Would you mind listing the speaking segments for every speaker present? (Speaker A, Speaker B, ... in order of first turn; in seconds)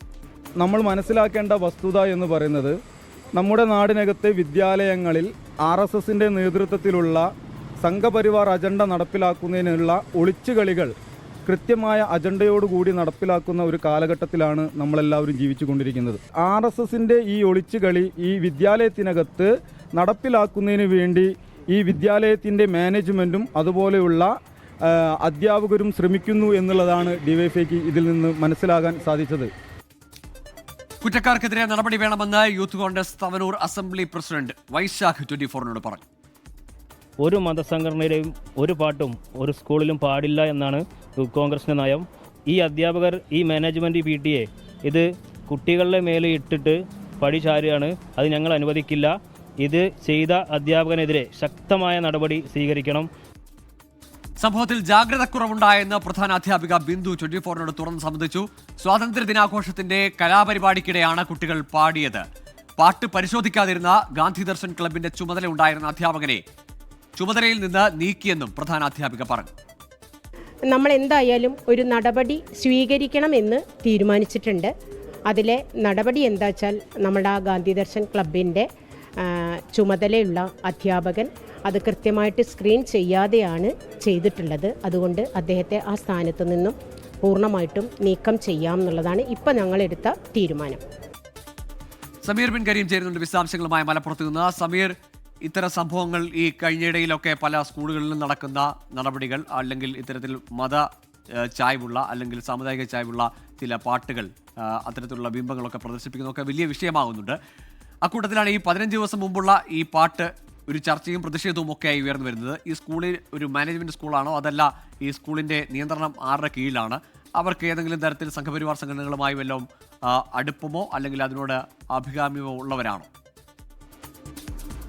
Speaker A: 0.6-2.7, 3.4-7.3, 7.8-10.9, 11.5-24.3, 24.9-29.5
Speaker B: 31.0-36.0, 54.4-62.2, 62.8-66.4, 67.2-69.5, 92.2-107.4, 108.0-123.1
Speaker C: 37.2-53.1
Speaker D: 70.7-74.7, 75.3-78.7, 79.2-90.8